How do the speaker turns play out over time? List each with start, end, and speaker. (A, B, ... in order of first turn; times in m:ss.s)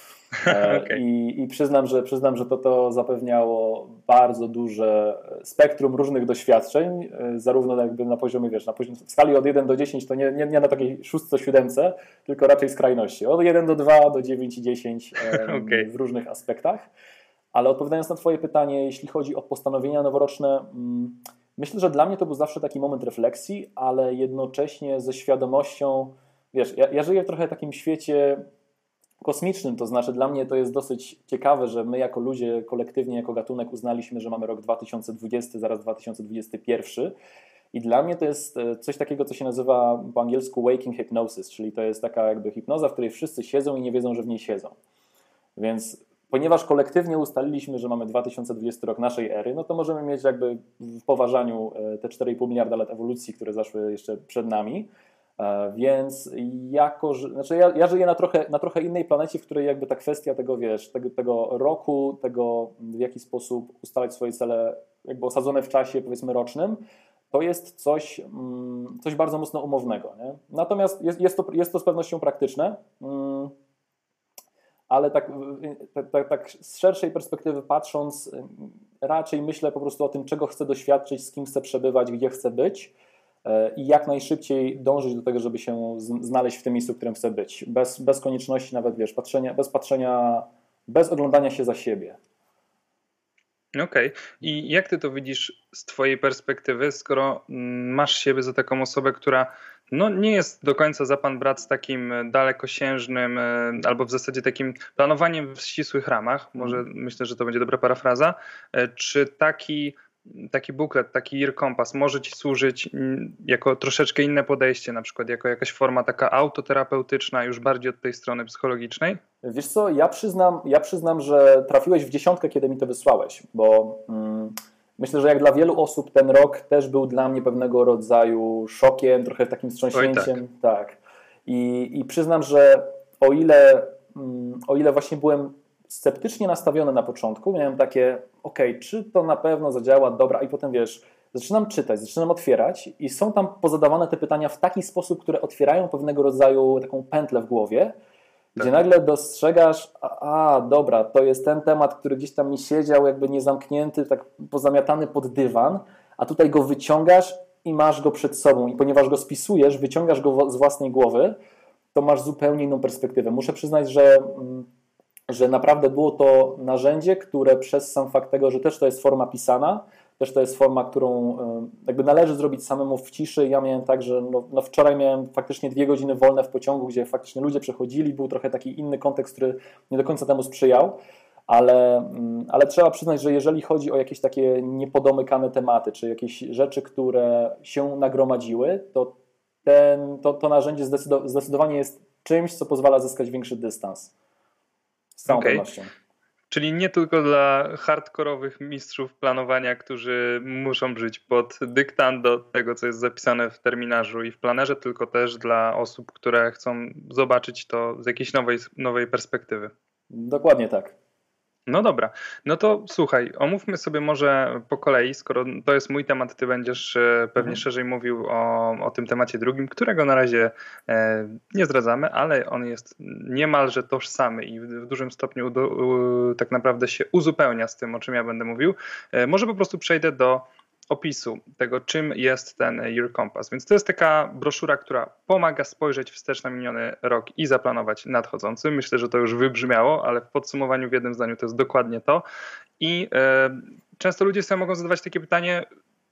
0:00.4-0:01.0 A
0:00.4-0:16.9 B
0:15.3-0:15.9 A
0:17.5-0:28.4 B
0:29.2-0:37.1 B
0:37.7-0:44.8 B
0:45.6-1:13.6 B
1:14.9-1:22.9 B
1:23.4-1:32.2 B
1:33.8-1:59.2 A
1:59.4-2:27.9 B
2:09.9-2:10.4 A
2:28.6-2:41.4 B
2:41.9-2:44.7 B
2:45.3-3:14.1 B
3:15.2-3:15.9 B
3:15.3-3:15.6 A
3:16.5-3:29.7 A
3:30.1-3:31.0 B
3:31.7-4:02.2 A
4:02.8-4:05.7 A